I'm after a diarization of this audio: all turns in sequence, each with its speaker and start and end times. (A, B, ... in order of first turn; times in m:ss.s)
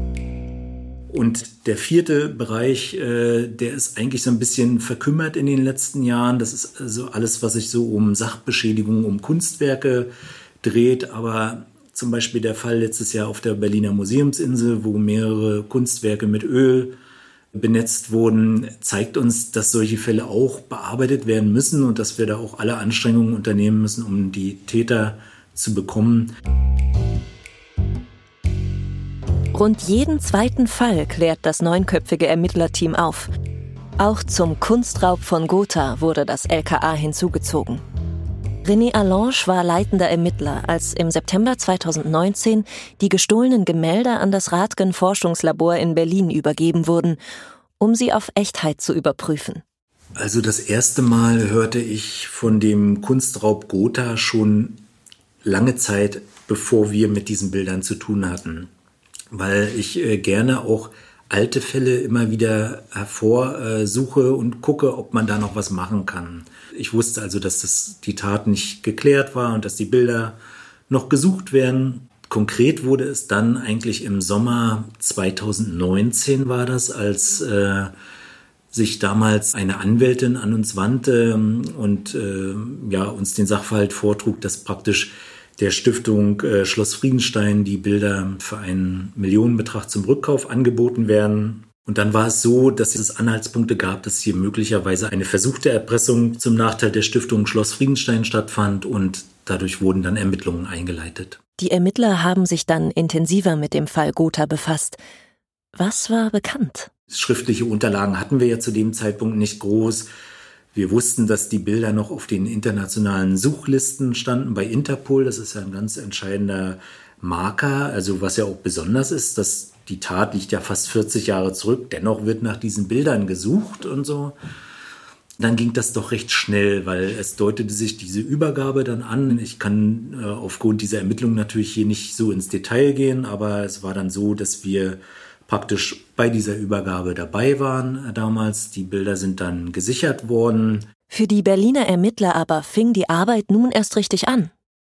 0:01.1-0:10.1 A
0:10.6-0:17.0 A
0:17.5-0:26.3 A
0:29.5-0:33.3 B
0:34.0-0:37.8 B
0:38.6-0:47.2 B
0:47.8-0:49.6 B
0:50.2-0:54.8 A
0:55.4-0:58.7 A
0:59.3-1:10.4 A
1:10.9-1:17.9 A
1:18.7-1:41.4 A
1:41.6-1:45.0 B
1:45.8-1:46.9 B
1:47.1-1:50.1 A
1:50.7-2:04.3 A
2:05.4-2:20.9 A
2:21.1-2:24.5 B